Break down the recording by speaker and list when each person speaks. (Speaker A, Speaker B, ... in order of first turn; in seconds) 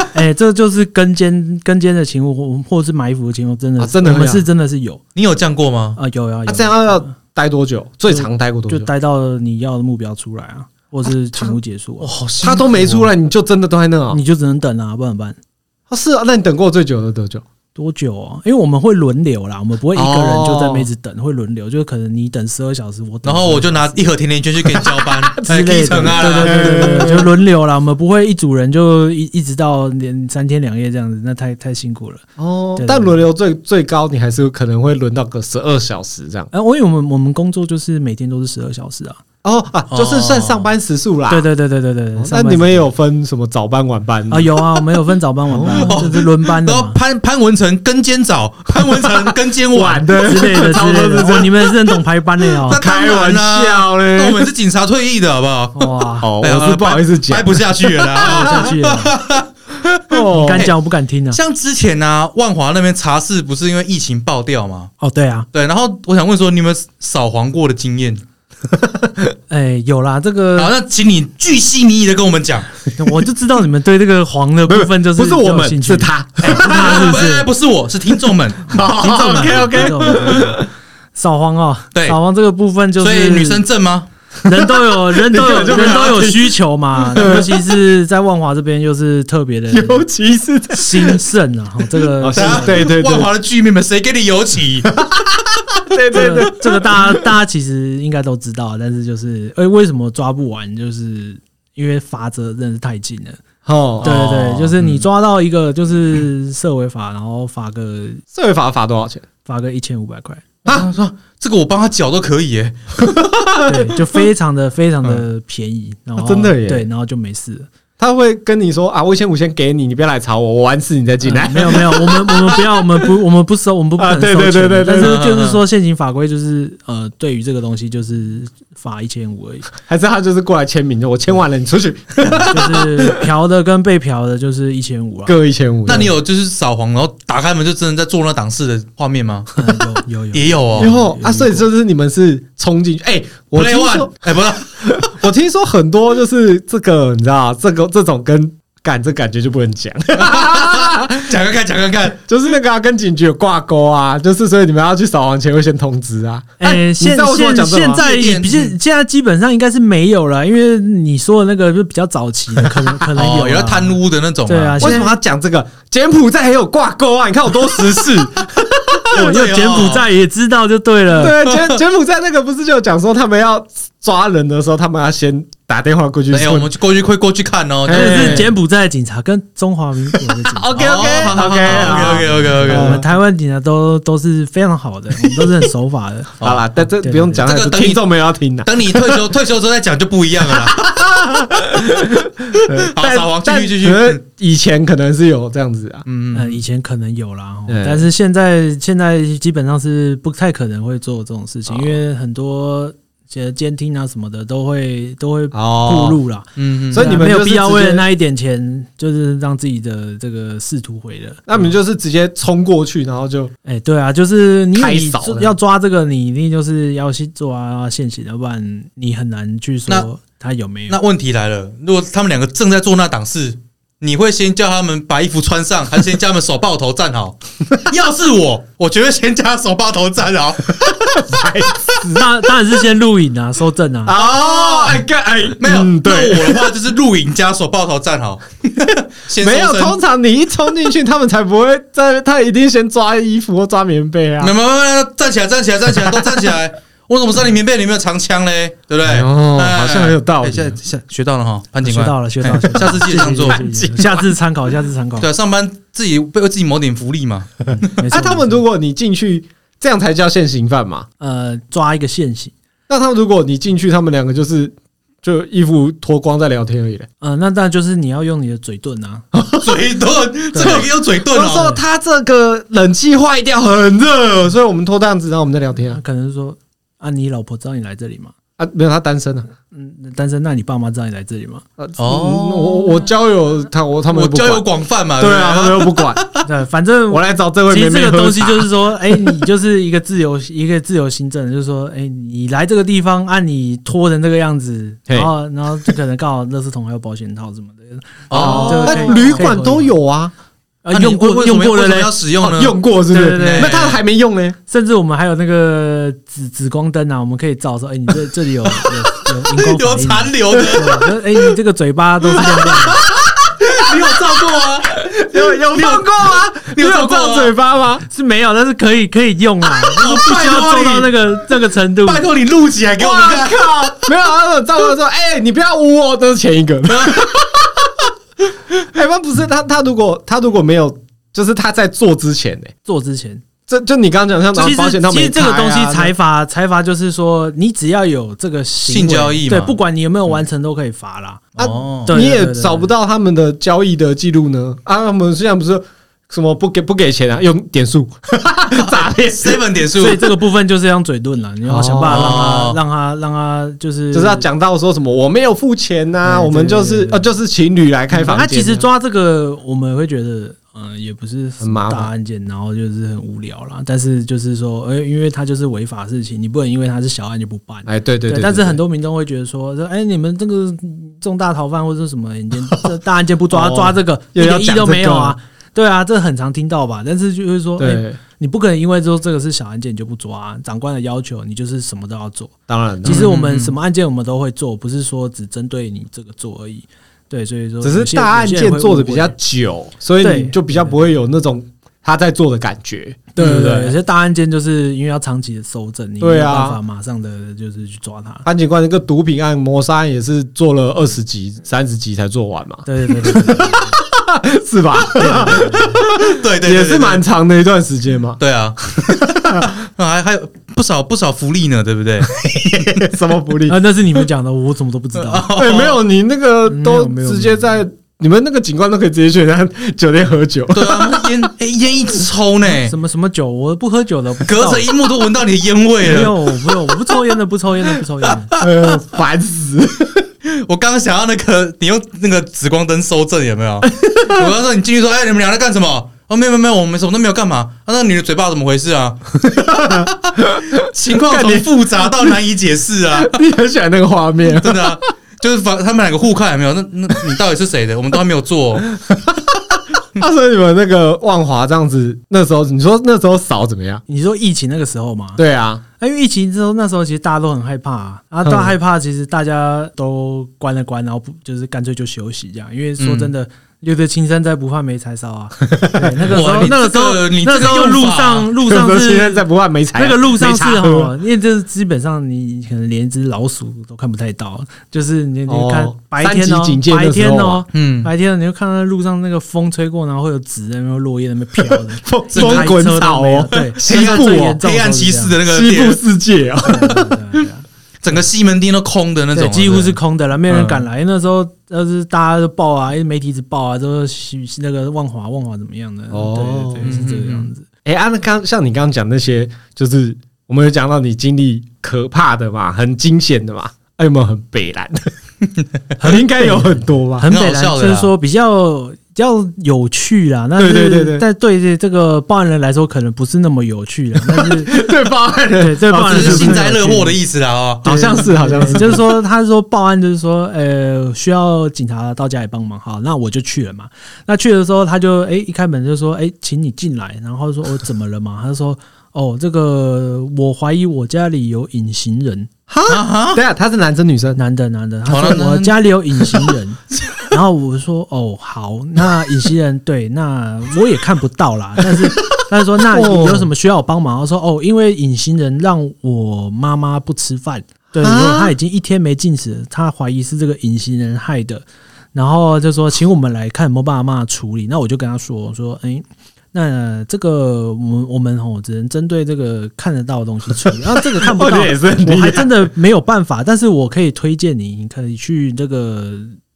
Speaker A: 0.1-5.0, 6.0-7.1, 8.1-12.1, 14.1-15.4, 17.7-23.9, 25.4-33.2, 36.5-39.2, 41.3-42.9, 44.3-47.0, 50.2-52.8, 55.7-56.3, 58.1-59.1, 60.1-61.4, 65.0-65.5, 69.5-70.7, 73.0-77.5, 78.8-83.6, 84.4-90.1, 90.7-92.9, 96.1-103.4, 104.0-108.2, 109.5-110.4, 113.6-117.7, 121.2-129.7, 132.4-135.3, 139.5-141.7, 156.6-165.2, 169.1-171.4, 177.9-187.4, 196.3-211.6, 213.6-221.0, 232.1-234.2, 251.8-255.3, 257.8-258.6, 261.2-262.5, 267.2-269.2, 270.5-270.9, 275.9-278.3, 279.7-281.6, 286.4-299.9, 300.8-302.2, 303.1-303.8, 304.7-313.0, 318.1-322.2, 332.8-333.4, 334.5-341.5, 342.1-342.9, 349.9-354.4, 356.2-357.3, 358.1-389.3, 390.2-390.9, 393.3-398.4, 402.9-403.9, 405.1-406.0, 413.7-415.5, 416.6-417.7, 422.6-424.9, 426.0-428.5, 454.1-455.4, 456.0-485.4, 486.6-487.6, 489.3-497.6, 506.0-514.9, 515.6-517.1, 517.8-532.5, 534.4-566.4
Speaker B: 3.8-4.4, 6.5-8.9, 12.4-14.2, 15.9-17.4, 19.9-20.9, 24.6-27.3, 32.4-36.5, 39.4-41.5, 42.2-44.8, 45.5-46.1, 48.7-52.0, 52.7-54.5, 56.2-58.7, 59.8-60.7, 68.7-69.3, 74.7-77.2, 78.7-80.7, 84.5-87.6, 89.7-91.2, 92.0-93.3, 95.0-97.2, 103.6-104.1, 108.3-109.2, 113.0-114.0, 116.2-116.8, 118.0-122.8, 124.0-125.2, 129.8-133.1, 135.2-136.1, 140.8-151.4, 152.3-158.0, 164.8-169.2, 171.1-176.7, 177.8-178.5, 180.5-183.0, 186.4-189.3, 190.4-196.0, 197.7-198.1, 201.7-201.9, 205.5-206.2, 206.9-208.0, 211.5-213.5, 214.8-215.5, 231.1-232.3, 234.1-236.7, 239.4-244.5, 249.0-250.8, 253.0-254.2, 258.1-261.1, 262.9-267.1, 269.3-269.7, 270.6-276.0, 278.6-279.5, 281.8-286.2, 287.1-288.7, 298.3-300.3, 302.4-304.6, 313.6-318.0, 323.0-328.1, 328.7-332.7, 333.7-336.1, 341.6-349.6, 351.7-352.4, 354.1-358.8, 361.6-362.1, 367.9-368.8, 373.5-375.4, 377.8-378.2, 382.7-383.3, 387.8-393.9, 396.2-396.8, 398.4-408.4, 409.1-409.7, 412.6-413.7, 415.5-421.3, 428.6-430.3, 433.9-434.5, 439.5-442.4, 443.1-445.0, 448.8-454.0, 455.4-455.8, 465.7-466.4, 468.6-471.1, 475.5-477.6, 481.6-484.6, 485.4-487.0, 496.1-496.9, 497.8-505.1, 506.0-507.3, 510.6-511.2, 514.3-516.6, 517.8-519.2, 532.7-534.4, 542.9-543.5, 548.0-548.5, 561.0-562.7
Speaker C: 5.1-6.0, 12.0-13.1, 23.2-27.2, 39.9-40.7, 45.7-50.1, 52.7-59.5, 61.3-64.9, 65.5-68.2, 70.5-72.7, 76.5-79.6, 83.0-84.1, 92.3-95.0, 104.0-105.0, 110.7-113.0, 124.9-125.6, 135.8-139.6, 140.3-140.9, 143.5-145.1, 150.2-152.2, 157.9-158.7, 163.1-164.9, 169.1-170.1, 171.4-171.8, 176.3-178.5, 180.7-183.0, 186.4-186.6, 187.4-188.0, 188.7-190.9, 192.7-194.2, 196.1-196.6, 206.6-207.1, 220.9-231.2, 234.1-235.0, 235.6-240.0, 244.4-253.6, 255.2-257.6, 269.5-271.8, 282.0-283.1, 284.1-286.4, 298.3-299.5, 300.9-304.0, 309.5-311.1, 312.4-317.5, 319.8-321.1, 322.0-324.1, 326.9-327.3, 338.9-339.7, 341.6-342.1, 348.7-350.3, 352.1-352.8, 383.1-383.7, 406.1-407.2, 408.4-413.0, 415.2-416.0, 420.7-422.9, 424.4-426.4, 428.5-428.7, 430.4-443.4, 444.5-448.9, 463.0-463.3, 466.3-468.5, 477.7-478.1, 482.3-482.8, 483.6-486.0, 488.0-490.0, 490.5-490.9, 496.8-497.5, 507.3-508.1, 516.0-518.4, 532.9-533.4, 535.1-535.8